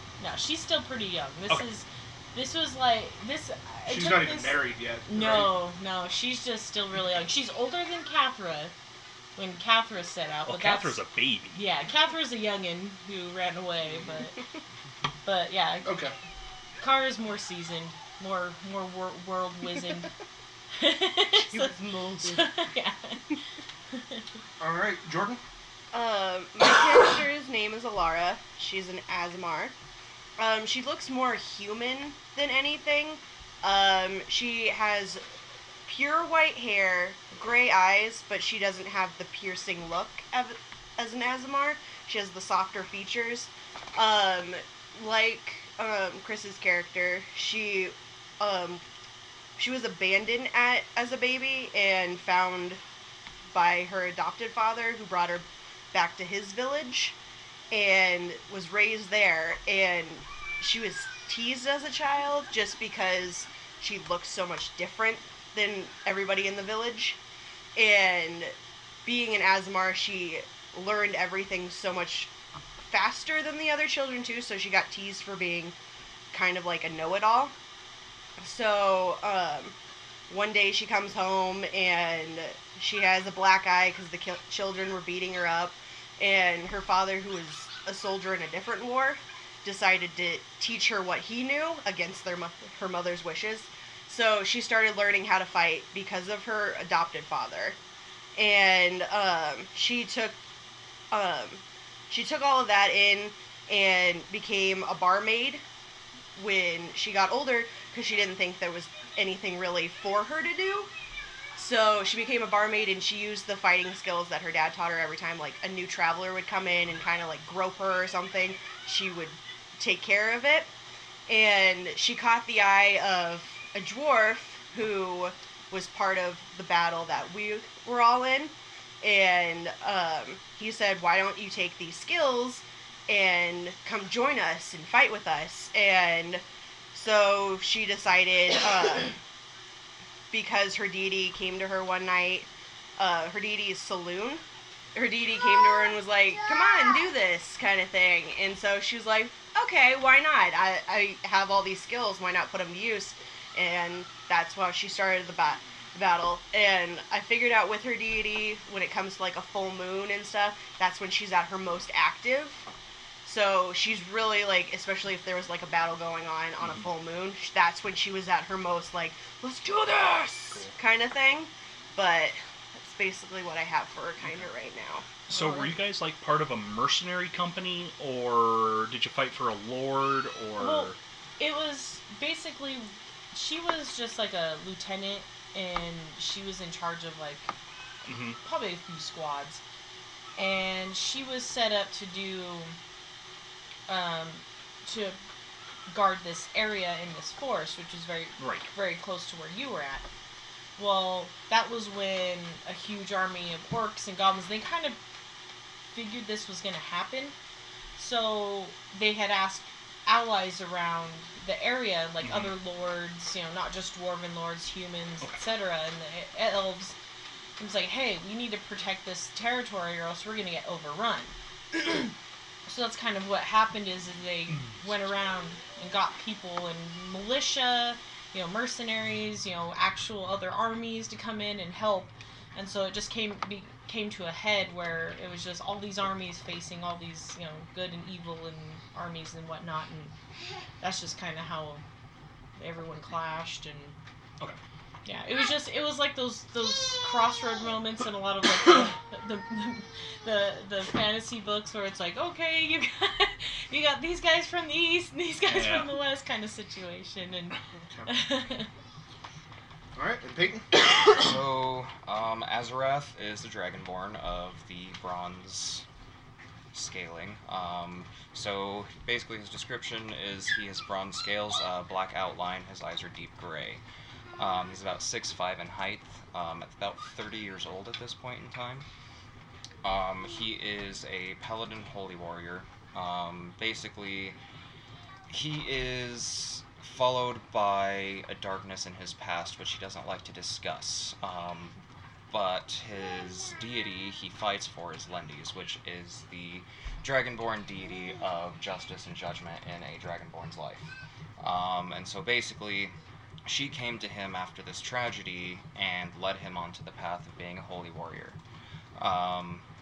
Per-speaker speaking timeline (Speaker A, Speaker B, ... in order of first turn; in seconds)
Speaker A: 0.2-8.7, 9.4-11.0, 11.5-14.4, 15.2-16.0, 16.8-20.1, 20.8-23.4, 23.9-24.2, 175.3-175.8, 180.6-187.5, 188.4-189.6, 190.4-192.8, 193.9-195.2, 195.9-200.1, 200.8-205.0, 205.9-207.3, 208.0-217.0, 217.6-222.1, 222.7-240.1, 240.8-241.8, 242.6-244.0, 245.1-258.7
Speaker B: 3.9-5.5, 15.8-16.1, 24.6-25.4, 260.0-260.7
Speaker C: 10.5-11.6, 175.3-181.0, 188.1-188.4, 198.4-198.7, 212.2-212.6, 255.5-255.9
Speaker D: 21.4-22.6, 25.9-29.8, 30.4-35.2, 35.9-48.8, 49.6-52.8, 53.5-57.2, 57.7-67.2, 67.8-68.5, 69.0-75.8, 76.3-77.5, 78.4-79.8, 80.3-97.8, 98.4-100.4, 101.1-105.6, 106.4-110.9, 111.5-120.7, 121.3-139.2, 140.3-144.4, 144.9-162.7, 163.2-175.2
Speaker E: 261.0-265.8, 266.7-273.8, 274.4-278.9, 279.8-284.4, 285.3-291.8, 292.3-308.4, 309.0-309.7